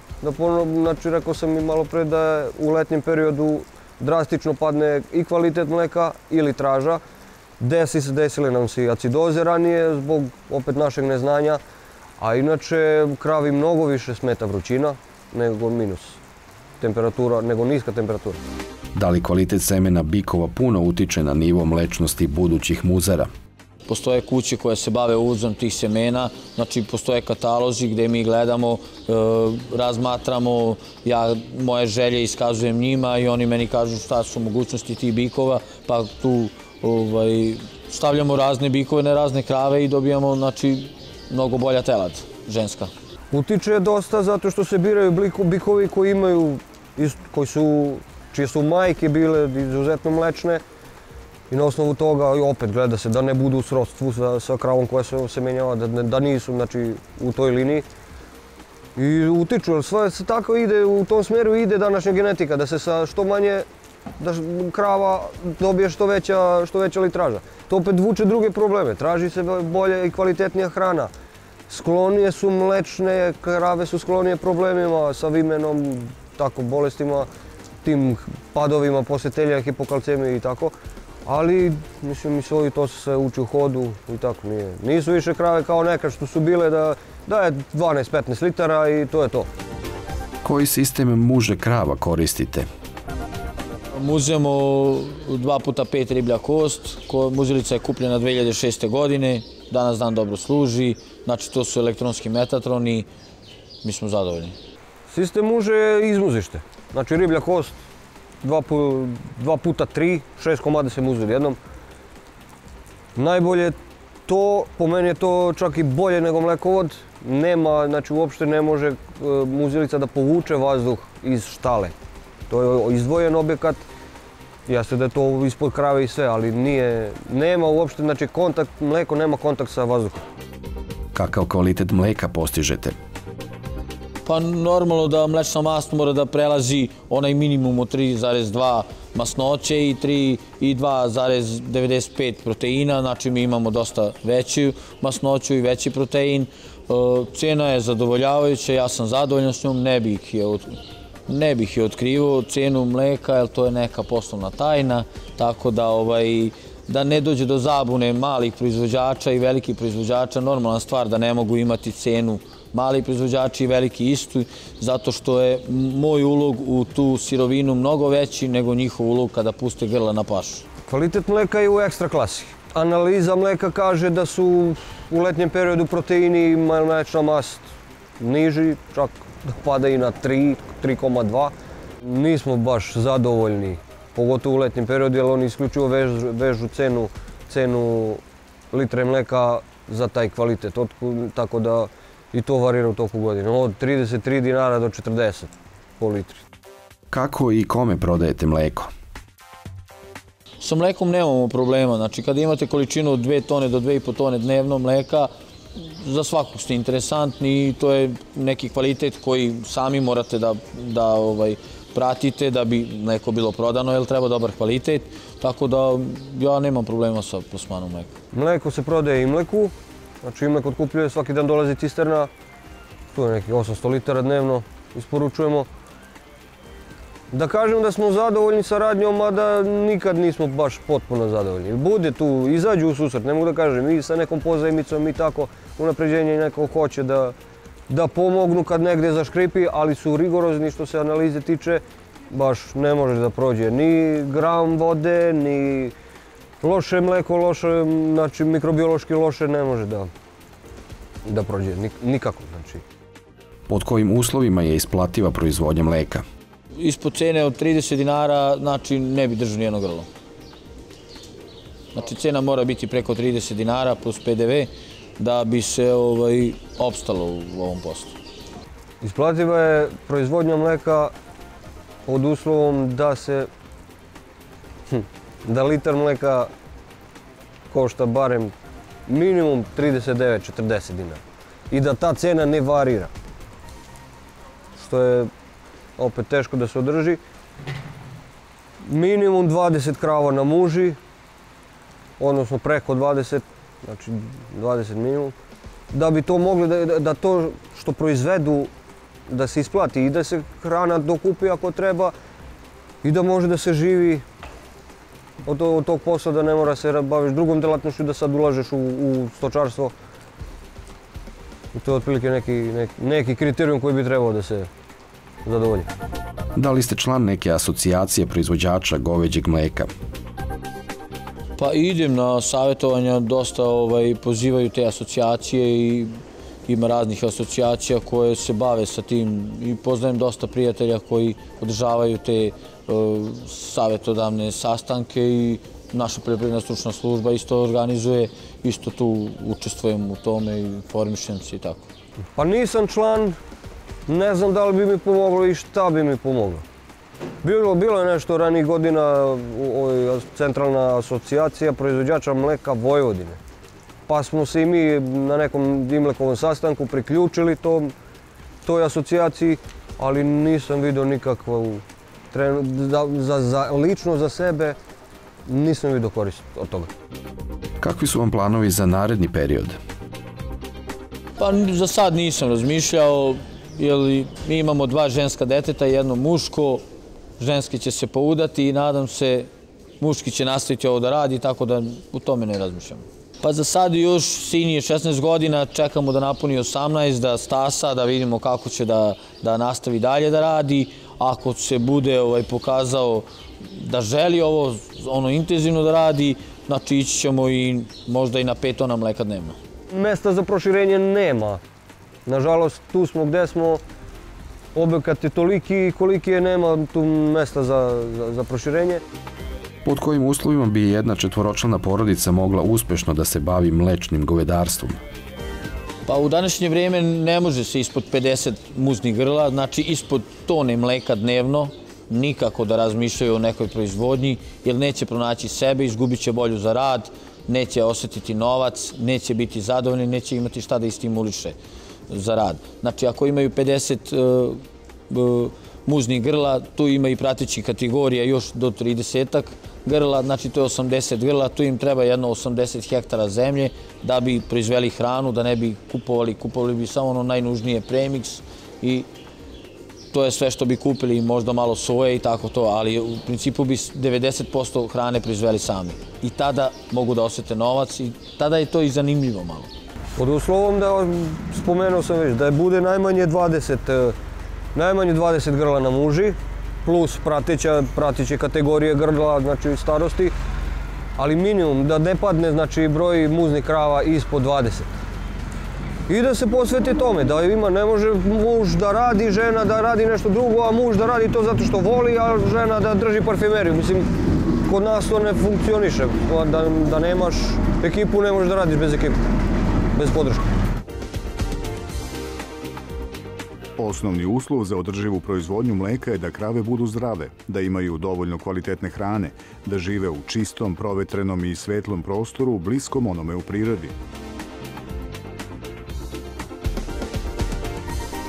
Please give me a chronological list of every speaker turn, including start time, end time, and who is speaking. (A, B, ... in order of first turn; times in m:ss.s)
0:00.2-0:07.0 A
0:07.6-0:11.6 A
0:12.2-0:16.2 A
0:16.8-0:18.4 A
0:18.9-0:23.3 B
0:23.9-0:42.9 C
0:43.3-0:50.6 A
0:51.5-0:57.8 A
0:59.0-1:03.6 A
1:04.2-1:11.1 A
1:11.7-1:17.3 A
1:17.8-1:20.7 A
1:21.2-1:29.5 A
1:30.4-1:32.7 B
1:33.9-1:43.1 C
1:43.8-1:44.6 C
1:45.1-1:47.8 A
1:48.4-1:51.6 A
1:53.2-1:53.7 A
1:54.3-2:01.9 A
2:02.5-2:03.8 A
2:04.7-2:10.2 A
2:11.1-2:13.0 B
2:14.2-2:50.6 C
2:50.9-2:57.6 A
2:58.2-3:01.5 A
3:02.0-3:16.4 A
3:17.1-3:18.9 B
3:20.6-3:38.1 C
3:38.3-3:42.3 A
3:43.1-3:45.7 A
3:47.3-3:57.3 A
3:57.9-4:05.9 A
4:06.6-4:10.1 A
4:11.2-4:12.8 A
4:13.7-4:16.2 B
4:16.8-4:20.1 C
4:21.9-4:28.1 C
4:29.0-4:31.1 A
4:32.1-4:33.5 A
4:34.9-4:36.5 A
4:37.7-4:38.5 A
4:39.1-4:43.1 A
4:44.8-4:45.3 A
4:46.0-4:47.2 A
4:48.8-4:51.0 A
4:52.2-4:55.3 A
4:55.9-4:58.7 A
4:59.3-5:02.1 A
5:03.0-5:04.2 A
5:05.4-5:09.9 A
5:11.7-5:14.7 A
5:15.4-5:15.9 A
5:16.6-5:19.9 B
5:21.6-5:26.1 C
5:26.7-5:41.8 C
5:42.4-5:43.4 A
5:44.1-5:46.6 A
5:47.4-5:53.4 A
5:54.1-5:57.9 A
5:58.6-6:04.8 A
6:05.5-6:06.9 A
6:07.8-6:09.8 B
6:11.4-6:16.8 C
6:17.4-6:19.5 C
6:20.0-6:39.6 C
6:39.9-6:41.6 A
6:42.2-6:43.8 A
6:44.7-6:49.0 A
6:49.8-6:55.0 B
6:56.0-7:11.6 C
7:12.1-7:29.1 C
7:30.1-7:39.7 C
7:40.2-7:44.1 A
7:44.7-7:50.3 A
7:51.2-7:54.9 A
7:56.1-8:04.1 A
8:04.6-8:09.2 A
8:09.9-8:10.4 A
8:13.8-8:23.9 D